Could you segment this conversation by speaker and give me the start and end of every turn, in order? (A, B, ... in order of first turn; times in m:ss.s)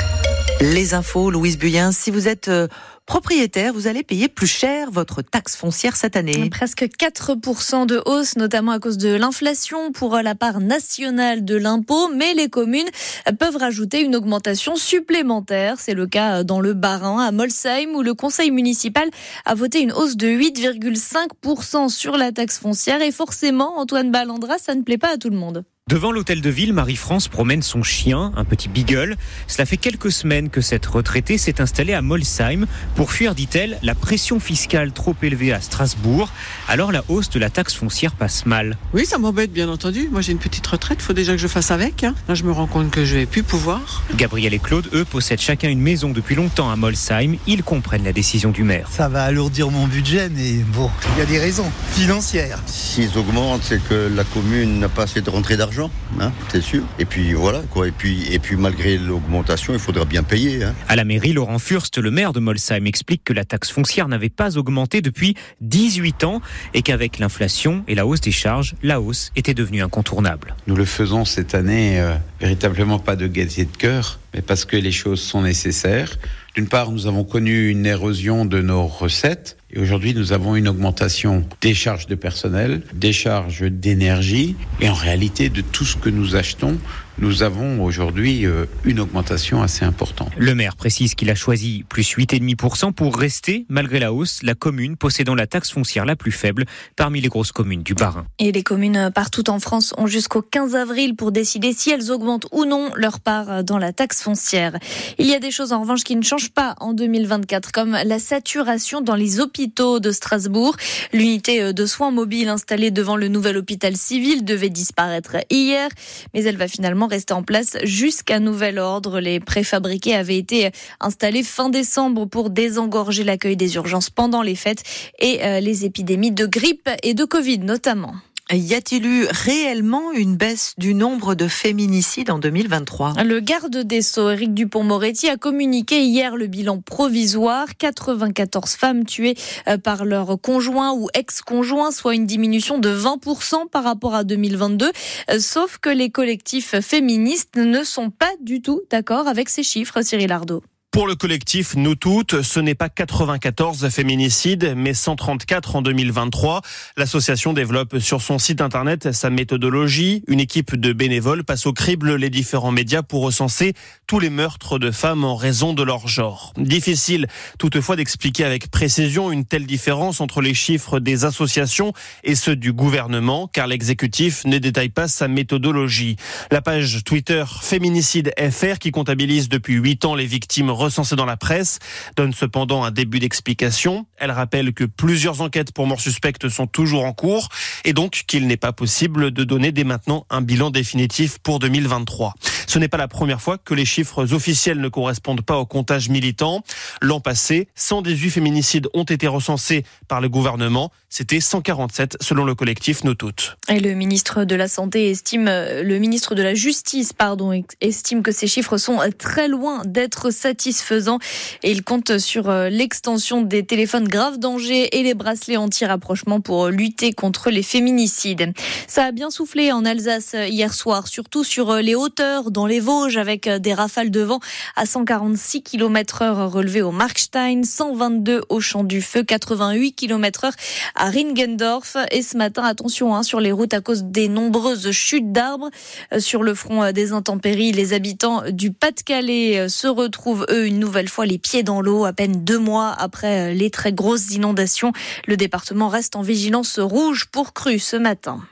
0:00.6-0:06.5 A
0:06.4-0:25.6 B
0:25.9-0:38.8 C
0:38.9-0:44.0 D
0:44.1-0:48.9 C
0:48.9-0:52.6 E
0:52.7-1:00.8 F
1:00.9-1:10.5 C
1:10.6-1:30.3 G
1:30.4-1:38.3 C
1:38.4-2:08.2 B
2:08.5-2:13.2 A
2:13.1-2:30.6 B
2:30.9-3:23.5 H
3:23.7-4:08.4 B